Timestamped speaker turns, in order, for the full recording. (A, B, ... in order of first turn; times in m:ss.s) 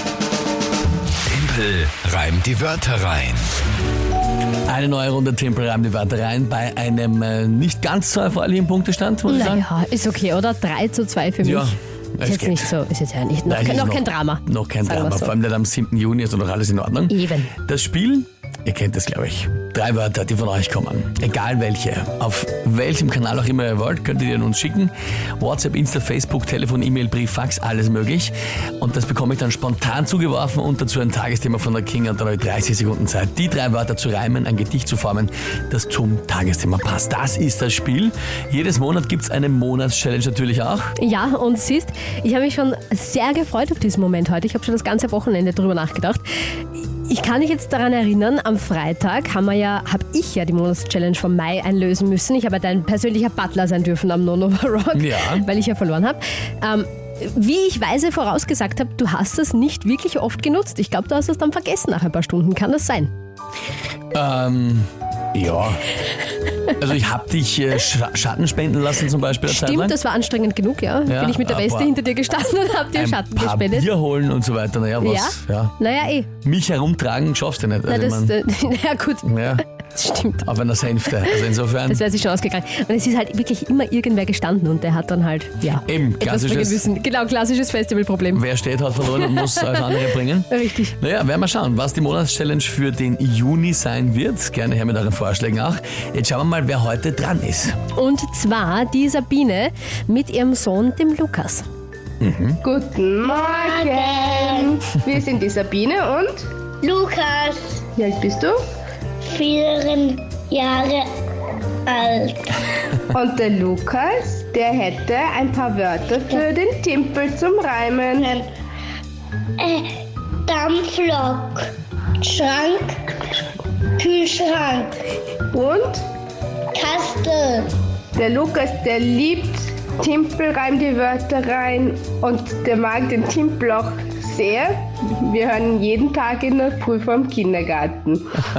0:01.3-0:03.4 A
0:04.7-0:09.6 B
0:09.3-0:15.3 C
0:11.4-0:12.7 B
0:13.5-0:40.9 B
0:17.1-0:17.5 C
0:41.0-0:46.2 C
0:46.8-1:03.1 C
0:54.9-0:55.5 B
1:04.1-1:05.9 B
1:06.8-1:10.0 B
1:09.5-1:13.9 C
1:11.1-1:12.0 B
1:12.9-1:15.7 B
1:15.0-1:16.3 C
1:16.4-1:18.4 B
1:17.9-1:19.3 C
1:19.2-1:19.6 B
1:19.9-1:20.4 C
1:20.4-1:22.0 B
1:21.0-1:28.4 C
1:25.7-1:26.8 B
1:28.3-1:37.8 B
1:29.0-1:30.9 C
1:37.9-1:41.6 C
1:42.2-1:42.6 B
1:42.6-1:46.4 D
1:43.2-1:44.8 E
1:46.8-1:47.8 E
1:48.0-1:48.6 D
1:49.2-1:51.1 E
1:51.8-1:52.6 E
1:53.1-1:58.3 D
1:58.2-1:58.5 E
1:59.6-2:03.3 E
2:04.0-2:05.0 E
2:05.5-2:06.0 D
2:06.7-2:07.7 E
2:08.1-2:18.3 D